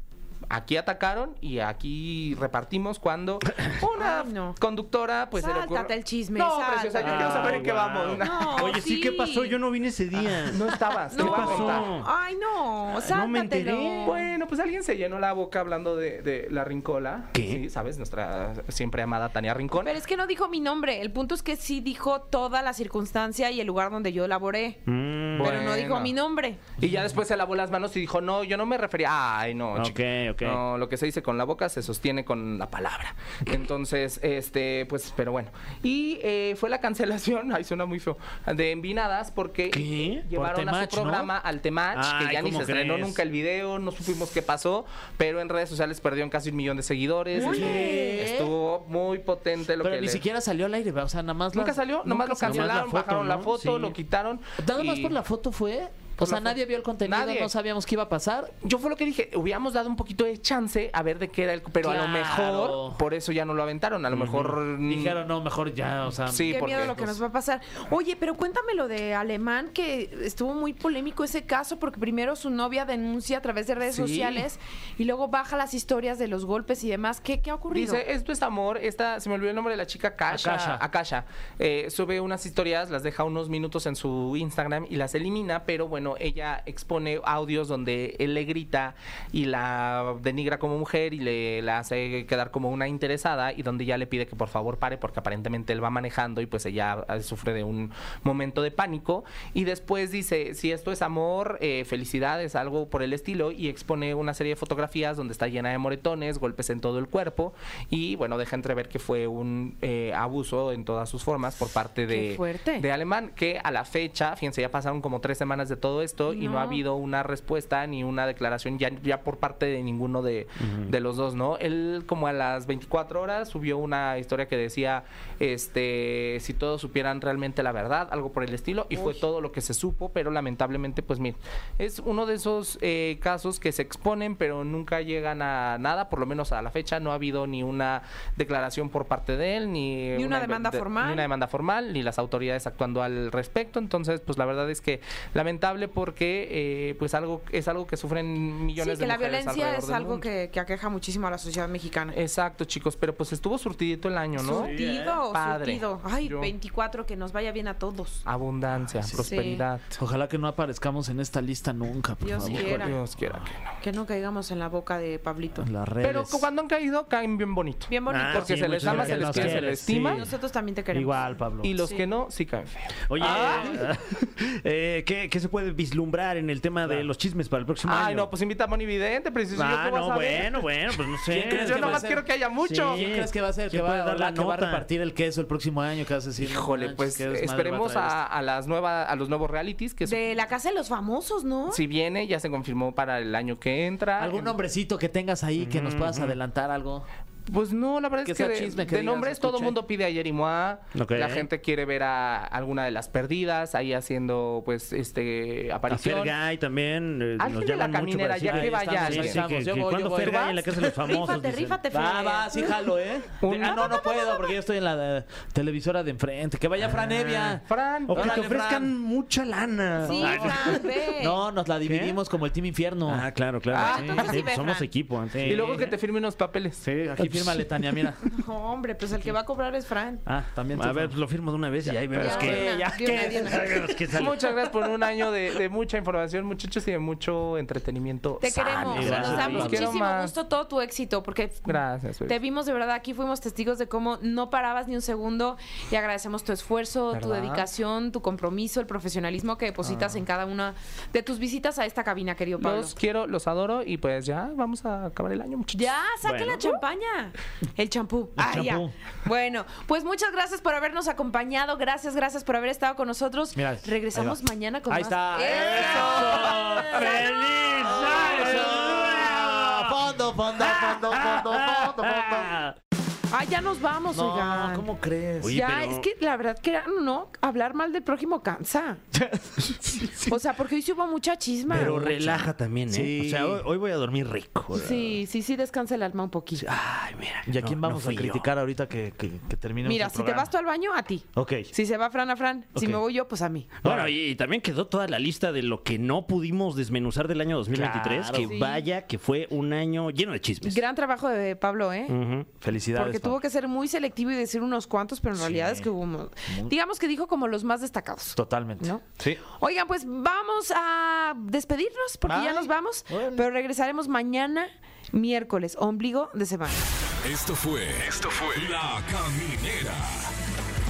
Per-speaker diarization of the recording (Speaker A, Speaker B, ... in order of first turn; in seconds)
Speaker A: 0.5-8.8, 10.5-11.9, 14.0-19.9, 25.4-26.1, 26.8-50.2, 51.5-55.1, 56.2-57.5, 58.6-65.2, 66.3-66.9, 73.9-74.5, 77.7-150.2, 152.1-154.7, 155.3-156.5, 158.2-160.0, 162.5-163.7, 166.0-170.2, 171.6-173.8, 177.8-180.7, 181.5-183.0, 186.4-190.3, 191.7-194.5, 197.5-206.3, 207.4-209.4, 210.2-210.6, 213.4-214.1, 217.7-218.4, 223.7-224.4, 225.5-226.8, 234.1-240.3, 241.7-242.4, 247.1-247.7, 252.6-255.9
Speaker B: 4.0-4.6, 5.3-7.6, 8.2-9.6, 11.1-14.2, 19.8-24.8, 25.4-26.6, 47.4-48.1, 66.5-78.0, 112.1-112.8, 116.3-116.8, 128.9-129.2, 140.1-141.3, 148.8-152.2, 154.4-158.2, 159.2-159.6, 162.2-163.0, 163.8-165.7, 167.9-168.8, 170.0-171.2, 190.0-191.8, 211.0-212.8, 213.6-214.5, 220.0-221.4, 223.7-224.9, 228.2-230.2, 232.1-233.8, 238.4-252.9, 255.7-267.2, 273.3-274.9, 275.5-279.0, 280.2-282.0, 284.7-286.6, 289.8-293.7, 298.4-298.8, 300.6-302.1, 302.9-316.8
Speaker C: 7.0-12.1, 12.9-14.2, 17.3-17.6, 24.9-25.7, 29.7-30.6, 39.7-40.2, 41.9-43.2, 52.4-53.9, 64.1-64.5, 120.6-120.9, 168.1-169.7, 173.1-178.3, 179.5-182.1, 182.6-184.8, 195.6-196.3, 200.9-201.4, 205.9-211.8, 216.9-220.8, 221.8-222.2, 223.1-225.9, 227.2-227.6, 230.7-234.5, 238.4-239.9, 256.2-256.7, 265.6-270.0, 270.6-272.7, 275.4-276.1, 281.7-285.2, 286.6-288.5, 293.8-300.8, 302.1-302.5
Speaker D: 40.3-41.3, 47.3-48.5, 49.8-53.3, 54.6-58.5, 61.8-63.0, 64.8-67.1, 80.3-80.8, 154.5-155.2, 158.8-159.2, 160.0-163.4, 165.6-166.5, 168.8-170.3, 170.9-171.7, 181.2-182.2, 182.9-188.2, 194.2-197.1, 198.2-199.8, 208.4-211.0, 211.9-219.0, 220.0-224.3, 225.3-225.9, 226.8-228.4, 230.2-231.2, 231.8-234.0, 238.9-239.9, 258.4-258.9, 263.5-267.3, 267.8-272.5, 274.1-275.6, 279.1-280.2, 281.7-283.6, 287.4-290.5, 291.3-291.7, 292.8-293.0, 293.8-294.1, 297.7-298.5, 302.6-303.4, 305.3-305.9, 306.5-306.7, 308.3-309.4, 312.3-313.5
Speaker E: 317.2-320.3